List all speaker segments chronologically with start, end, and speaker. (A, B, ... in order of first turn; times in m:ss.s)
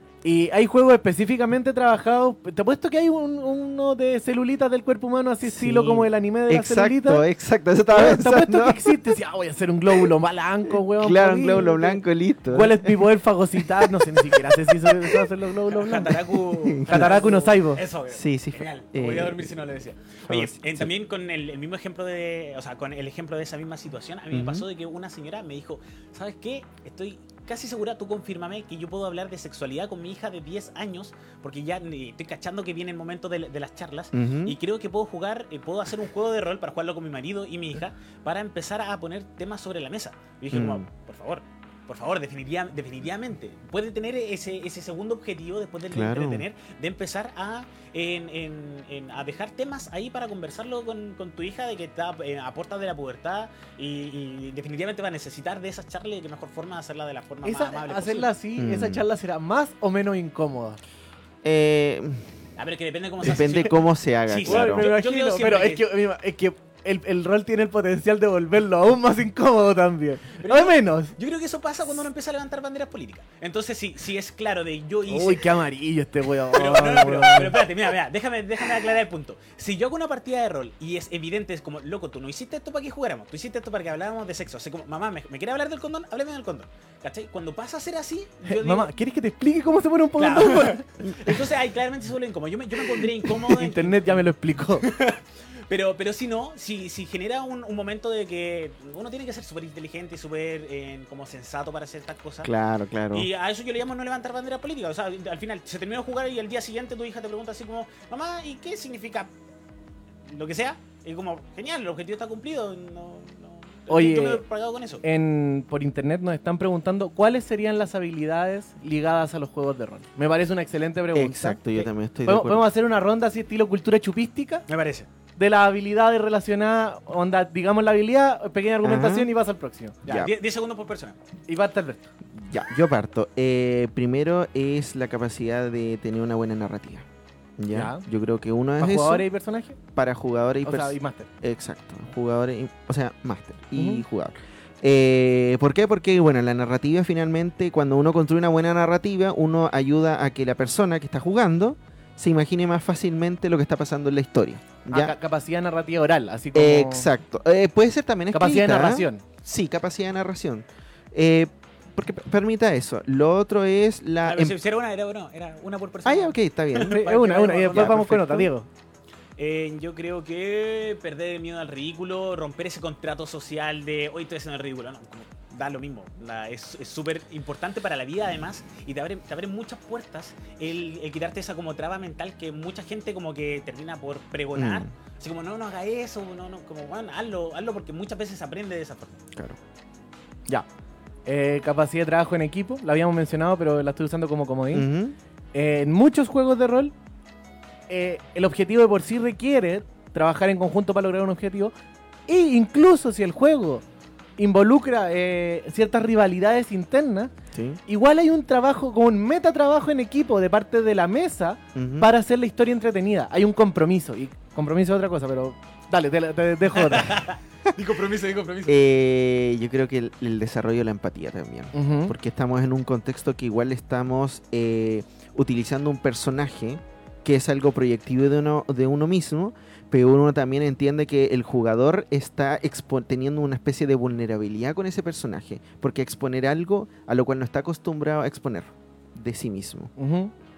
0:00.2-0:07.2 A
0:05.4-0:08.9 B
0:07.9-0:16.2 A
0:10.7-0:13.0 B
0:13.8-0:14.2 B
0:15.7-0:58.3 C
0:16.6-0:17.3 B
0:16.8-0:17.8 A
0:18.1-0:19.6 B
0:20.3-0:20.9 B
0:24.3-0:24.7 B
0:34.1-0:34.6 B
0:40.5-0:40.9 B
0:45.9-0:46.4 B
0:57.4-1:00.8 A
0:58.6-0:59.0 B
1:01.4-1:02.3 B
1:02.6-1:05.9 C
1:03.2-1:04.9 B
1:04.4-1:11.2 A
1:10.4-1:15.4 C
1:15.1-1:17.6 A
1:16.5-1:28.9 C
1:28.5-1:31.3 A
1:30.2-1:34.2 C
1:33.2-1:34.9 A
1:34.8-1:42.5 C
1:42.4-1:43.3 B
1:43.1-1:49.3 C
1:50.3-1:55.0 C
1:53.9-1:54.4 A
1:55.0-2:04.6 A
2:01.1-2:02.7 B
2:04.7-2:05.1 C
2:05.4-2:10.0 A
2:08.8-2:09.3 B
2:10.0-2:10.3 B
2:10.0-2:11.2 C
2:11.5-2:12.1 A
2:12.3-2:17.1 B
2:17.6-2:19.3 B
2:17.7-2:18.1 A
2:18.8-2:19.8 A
2:20.0-2:35.2 B
2:20.6-2:21.3 A
2:23.8-2:24.0 A
2:34.9-2:37.1 A
2:36.5-2:44.6 B
2:38.3-2:39.2 A
2:44.2-2:48.0 C
2:46.0-2:47.0 B
2:46.9-2:48.7 A
2:47.7-2:48.5 B
2:49.4-3:09.2 C
3:04.6-3:04.9 B
3:09.3-3:09.6 B
3:11.3-3:14.9 A
3:14.7-3:15.2 B
3:15.5-3:16.9 A
3:17.9-3:21.7 A
3:22.3-3:23.8 A
3:24.4-3:27.3 A
3:27.5-3:27.8 B
3:27.9-3:37.3 A
3:31.8-3:32.1 B
3:36.8-3:38.8 C
3:38.7-3:59.9 B
3:41.7-3:42.1 A
4:00.0-4:00.3 A